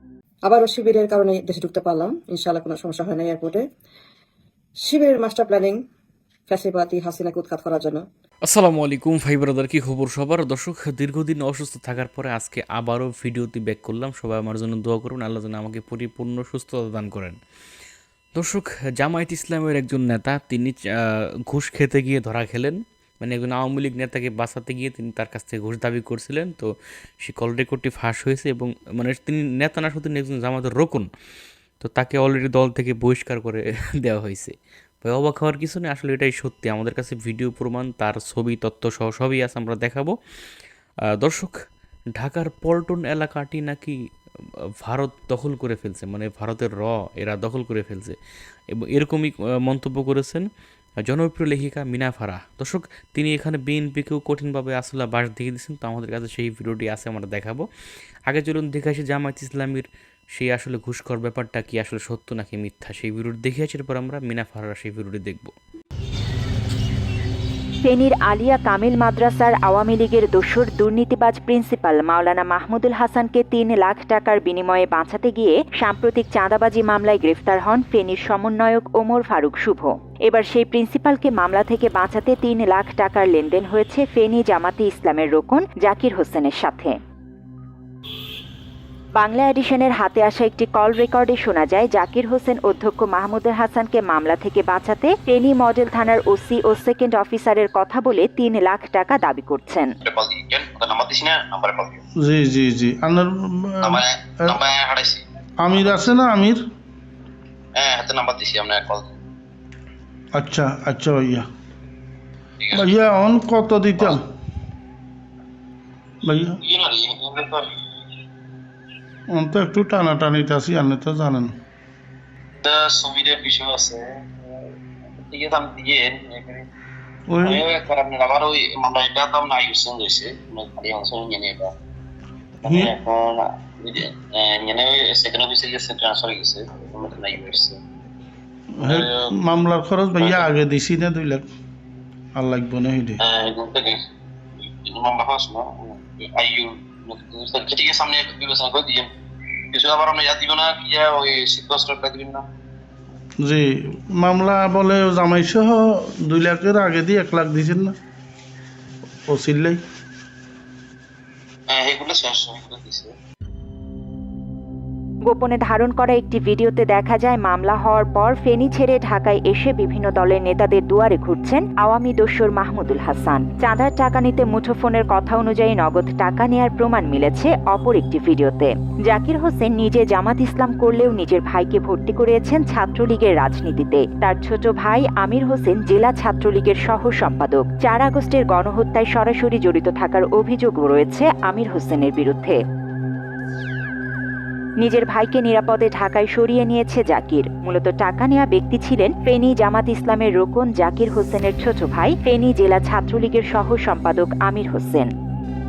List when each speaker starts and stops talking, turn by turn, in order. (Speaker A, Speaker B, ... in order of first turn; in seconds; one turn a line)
Speaker A: 0.4-3.6
Speaker A: 4.8-5.8
Speaker A: 6.5-8.0
Speaker B: 8.4-17.4
Speaker B: 18.4-26.7
Speaker B: 27.2-31.1
Speaker B: 31.8-40.1
Speaker B: 41.2-41.5
Speaker B: 42.1-43.9
Speaker B: 44.8-48.1
Speaker B: 48.7-50.5
Speaker B: 51.0-57.6
Speaker B: 58.3-65.5
Speaker C: 67.8-87.0
Speaker C: 89.2-99.9
Speaker D: 100.0-101.9
Speaker E: 102.2-104.6
Speaker D: 103.8-105.2
Speaker E: 105.6-106.6
Speaker D: 105.7-106.1
Speaker D: 107.8-109.1
Speaker E: 110.3-111.4
Speaker E: 112.7-114.2
Speaker E: 116.2-116.6
Speaker D: 116.6-117.6
Speaker E: 119.3-121.5
Speaker D: 122.6-124.0
Speaker D: 125.1-126.6
Speaker E: 127.3-127.7
Speaker D: 127.4-131.7
Speaker E: 132.6-132.9
Speaker D: 132.7-137.7
Speaker E: 138.8-141.5
Speaker D: 138.8-139.2
Speaker D: 140.2-140.5
Speaker E: 142.3-143.2
Speaker D: 143.3-143.9
Speaker D: 144.9-149.1
Speaker D: 149.7-152.4
Speaker E: 153.4-157.9
Speaker E: 159.3-159.8
Speaker D: 161.7-163.1
Speaker C: 165.3-192.6
Speaker C: 194.8-205.1